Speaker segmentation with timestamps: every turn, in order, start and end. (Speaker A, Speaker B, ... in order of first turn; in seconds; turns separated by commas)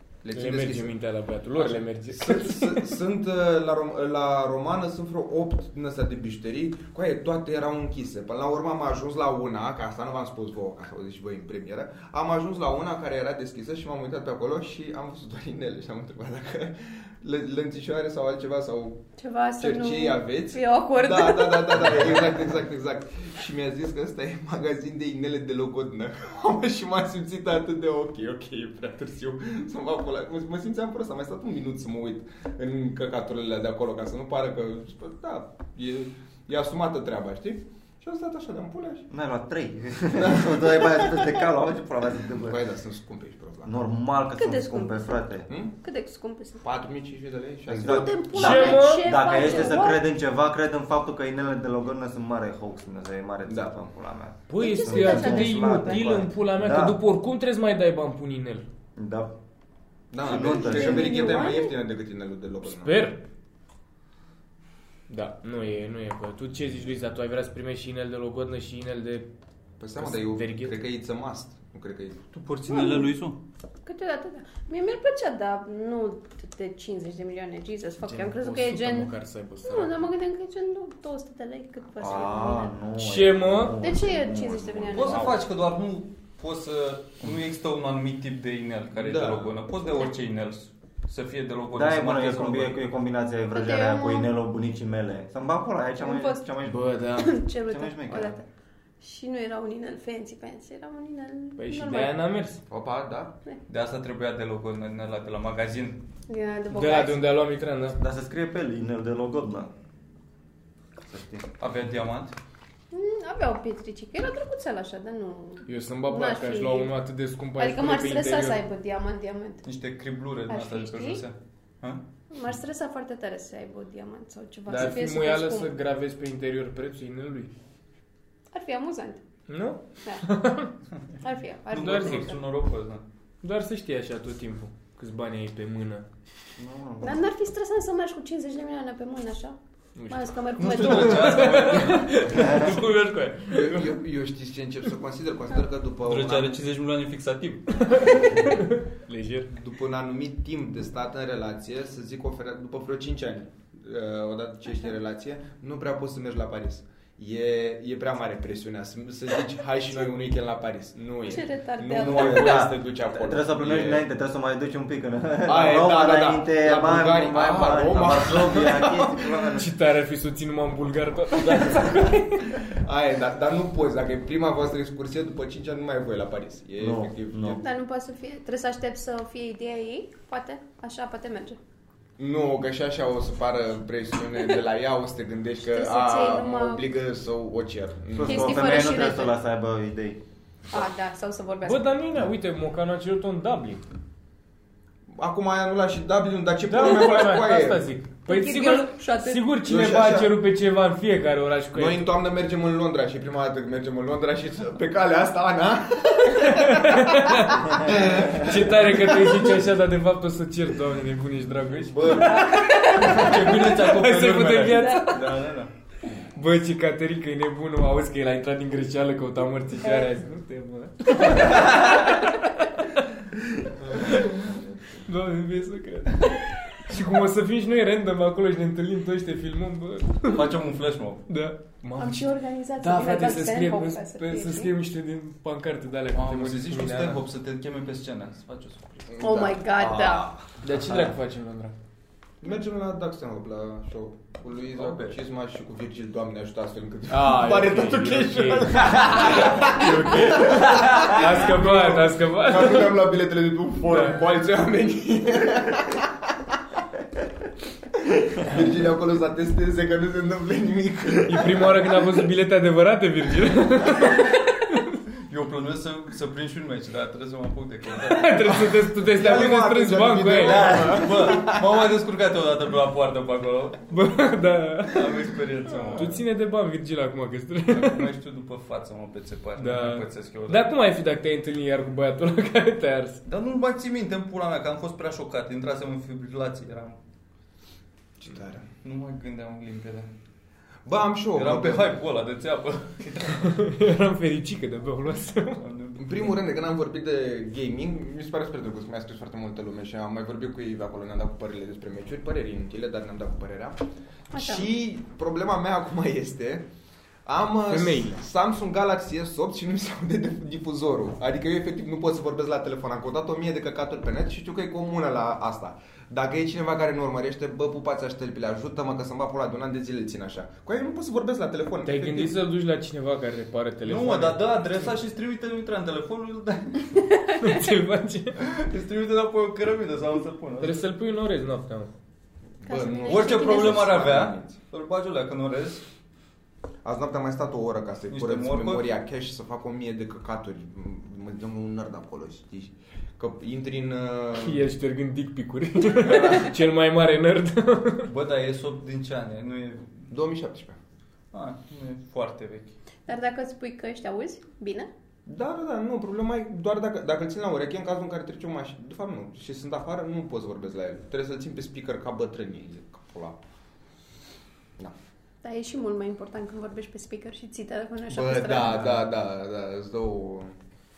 Speaker A: 0.2-0.9, Speaker B: 0.3-2.8, Speaker A: 1.6-19.1, Speaker C: 19.2-22.0, Speaker A: 19.6-39.1, Speaker D: 39.1-42.6, Speaker A: 40.2-41.1, Speaker A: 42.4-43.7, Speaker D: 43.6-45.5, Speaker C: 44.4-45.2, Speaker A: 45.5-45.8, Speaker C: 45.8-46.6, Speaker A: 46.6-48.2, Speaker D: 47.7-57.0, Speaker C: 47.8-50.0, Speaker B: 48.3-49.1, Speaker A: 53.5-53.8, Speaker B: 54.5-58.6, Speaker C: 54.6-56.1, Speaker D: 59.0-59.4, Speaker A: 60.1-63.0, Speaker D: 60.2-61.4, Speaker C: 60.3-61.8, Speaker B: 62.6-63.2, Speaker B: 65.1-69.3, Speaker A: 69.8-72.2, Speaker B: 70.0-70.8, Speaker E: 72.3-73.4, Speaker C: 72.7-73.1, Speaker C: 73.8-79.1, Speaker B: 78.0-80.1, Speaker C: 79.6-82.7, Speaker D: 82.0-85.3, Speaker B: 83.0-83.8, Speaker C: 83.8-85.4, Speaker E: 84.9-92.8, Speaker A: 89.0-89.5, Speaker D: 91.7-96.9, Speaker C: 93.5-94.3, Speaker C: 96.0-96.5, Speaker B: 96.7-97.3, Speaker C: 97.2-98.5, Speaker D: 97.7-98.4, Speaker C: 99.0-102.2, Speaker B: 101.6-102.6, Speaker A: 102.7-103.4, Speaker E: 103.7-106.0, Speaker C: 106.3-107.3, Speaker B: 106.7-108.0, Speaker D: 108.0-109.7, Speaker D: 111.0-111.5, Speaker E: 111.6-112.3, Speaker C: 112.9-117.0, Speaker B: 115.7-118.6, Speaker C: 117.6-119.7, Speaker E: 119.7-122.0, Speaker C: 120.5-121.2, Speaker C: 122.3-125.7, Speaker B: 124.7-127.5, Speaker C: 128.5-129.2, Speaker B: 129.5-130.7, Speaker C: 131.2-132.4, Speaker E: 131.7-133.0, Speaker B: 131.8-132.3, Speaker B: 133.4-136.1, Speaker D: 136.6-137.2, Speaker C: 137.0-139.6, Speaker B: 140.0-143.9, Speaker C: 140.1-141.7, Speaker E: 140.6-142.6, Speaker D: 142.3-142.8, Speaker A: 143.5-146.6, Speaker E: 146.1-147.8, Speaker B: 147.8-149.5, Speaker A: 149.5-164.0, Speaker C: 161.2-162.8, Speaker D: 162.0-169.7, Speaker A: 165.5-169.3, Speaker B: 169.6-172.6, Speaker A: 172.6-177.7, Speaker D: 176.8-177.6, Speaker C: 177.6-181.6, Speaker A: 182.2-189.0, Speaker C: 185.6-186.8, Speaker D: 188.1-190.2, Speaker C: 188.2-189.3, Speaker C: 190.7-192.1, Speaker B: 191.6-193.8, Speaker A: 195.2-197.8, Speaker B: 196.7-202.1, Speaker C: 198.2-199.6, Speaker A: 199.6-200.3, Speaker A: 201.7-209.6, Speaker B: 206.3-215.3, Speaker E: 211.9-215.7, Speaker C: 212.3-213.3, Speaker C: 214.7-215.4, Speaker B: 216.3-223.1, Speaker C: 219.8-220.1, Speaker A: 223.8-225.1, Speaker B: 224.0-224.4, Speaker B: 225.0-230.4, Speaker E: 230.3-231.3, Speaker B: 231.3-237.2, Speaker C: 232.0-234.7, Speaker E: 236.1-239.1, Speaker A: 239.1-240.4, Speaker C: 239.2-240.3, Speaker B: 240.6-241.8, Speaker A: 242.4-256.1, Speaker E: 244.8-245.2, Speaker B: 247.1-252.9, Speaker B: 253.9-254.2, Speaker A: 258.4-262.1, Speaker B: 261.3-265.0, Speaker E: 265.3-268.6, Speaker B: 268.0-270.9, Speaker A: 268.5-271.8, Speaker E: 270.4-273.9, Speaker B: 273.9-275.2, Speaker E: 274.9-276.2, Speaker B: 275.9-278.1, Speaker E: 277.7-280.7, Speaker B: 279.6-283.2, Speaker E: 283.3-287.0, Speaker A: 288.2-288.7, Speaker E: 288.8-290.1, Speaker A: 290.9-291.9, Speaker E: 291.3-293.5, Speaker B: 293.3-295.6, Speaker E: 295.6-296.3, Speaker A: 296.0-303.8, Speaker C: 304.3-304.7, Speaker A: 304.3-306.6, Speaker A: 307.3-322.4, Speaker B: 307.7-308.2, Speaker B: 321.9-324.9, Speaker E: 323.9-327.0, Speaker C: 327.1-327.6, Speaker B: 327.4-328.4, Speaker E: 328.4-330.8, Speaker B: 330.6-331.9, Speaker A: 332.6-334.5, Speaker C: 332.6-334.1, Speaker E: 333.1-335.8, Speaker A: 336.8-344.6, Speaker E: 338.1-338.9, Speaker B: 344.4-348.1, Speaker A: 346.0-346.5, Speaker E: 348.1-350.1, Speaker A: 350.1-350.8, Speaker E: 351.3-352.7, Speaker C: 353.1-354.9, Speaker A: 355.3-363.4, Speaker C: 365.4-369.0, Speaker A: 368.1-370.5